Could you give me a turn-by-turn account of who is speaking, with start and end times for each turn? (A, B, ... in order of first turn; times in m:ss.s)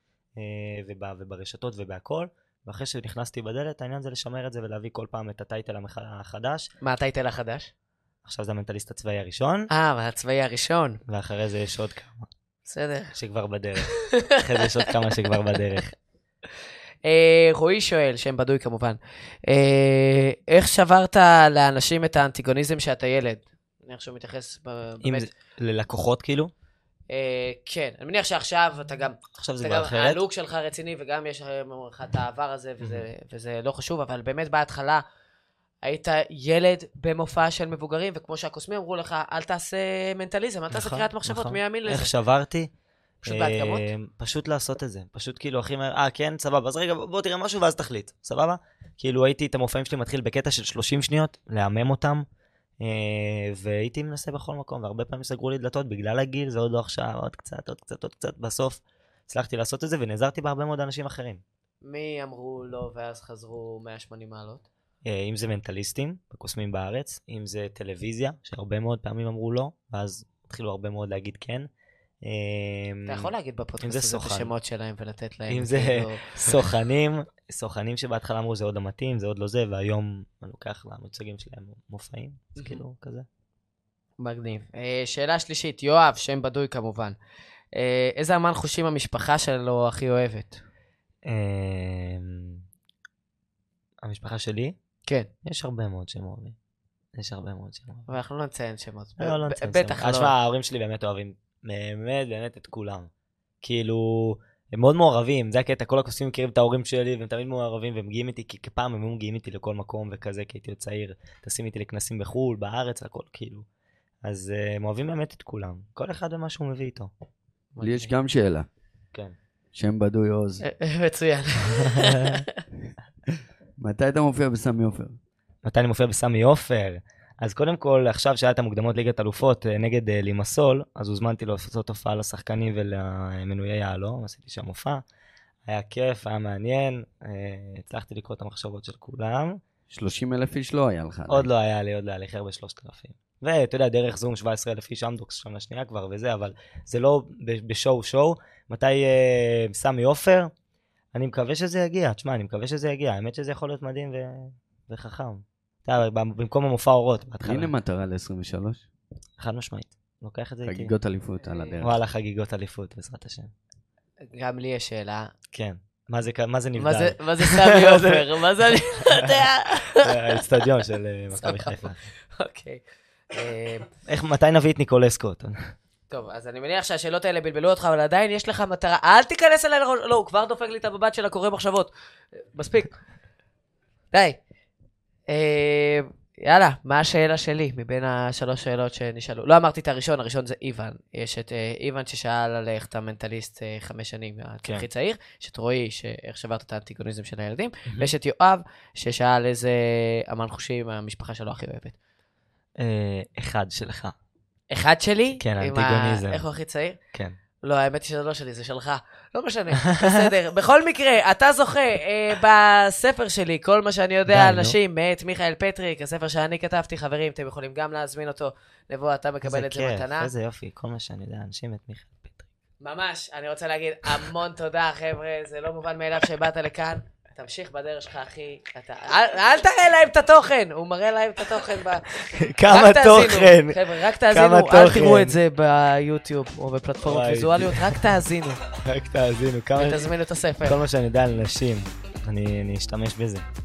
0:00.4-0:06.7 A
0:06.8-0:07.7 B
0:08.2-0:09.7 A
0:09.7-0:11.0 B
0:11.1-0:12.3 A
0:12.6-0:13.1 B
0:13.1-0:15.9 A
0:13.8-0:15.3 B
0:17.0-0:25.3 B
0:25.0-0:26.5 A
0:27.1-0:35.0 B
0:29.3-0:30.2 A
0:35.8-0:42.1 B
0:40.7-0:42.7 A
0:43.2-0:43.9 B
0:43.2-0:52.2 A
0:52.8-1:01.4 A
1:01.8-1:04.6 B
1:05.0-1:11.7 A
1:12.2-1:13.3 A
1:13.1-1:16.2 B
1:13.8-1:14.5 A
1:15.5-1:23.3 A
1:22.6-1:22.8 B
1:24.2-1:27.2 B
1:27.7-1:30.6 B
1:31.2-1:32.6 A
1:34.0-1:34.8 A
1:35.4-1:36.6 A
1:37.2-1:38.1 A
1:38.1-1:40.3 B
1:39.2-1:43.1 A
1:43.6-1:53.6 A
1:54.2-1:57.1 A
1:57.7-1:58.1 B
1:57.8-1:58.7 C
1:59.7-2:00.6 C
2:00.6-2:02.5 B
2:03.8-2:05.2 C
2:05.6-2:15.0 A
2:15.6-2:19.6 A
2:19.9-2:21.5 C
2:21.3-2:30.5 A
2:31.1-2:37.7 A
2:37.4-2:38.8 C
2:39.4-2:40.9 A
2:40.6-2:42.0 C
2:41.4-2:41.7 B
2:41.8-2:43.5 A
2:44.2-2:45.3 B
2:45.5-2:48.3 A
2:46.8-2:50.4 B
2:50.0-2:52.1 A
2:51.3-2:53.9 B
2:54.0-2:55.7 A
2:56.1-3:01.9 B
3:02.5-3:03.0 B
3:04.1-3:04.4 B
3:05.3-3:22.0 B
3:22.8-3:24.1 A
3:24.7-3:27.0 B
3:25.4-3:26.4 A
3:27.6-3:40.3 B
3:29.9-3:30.2 A
3:34.3-3:34.7 A
3:39.4-3:42.5 A
3:42.8-3:58.6 B
3:52.2-3:55.4 A
3:57.0-3:58.0 A
3:58.8-4:00.1 A
3:59.7-4:00.8 B
4:00.6-4:03.4 A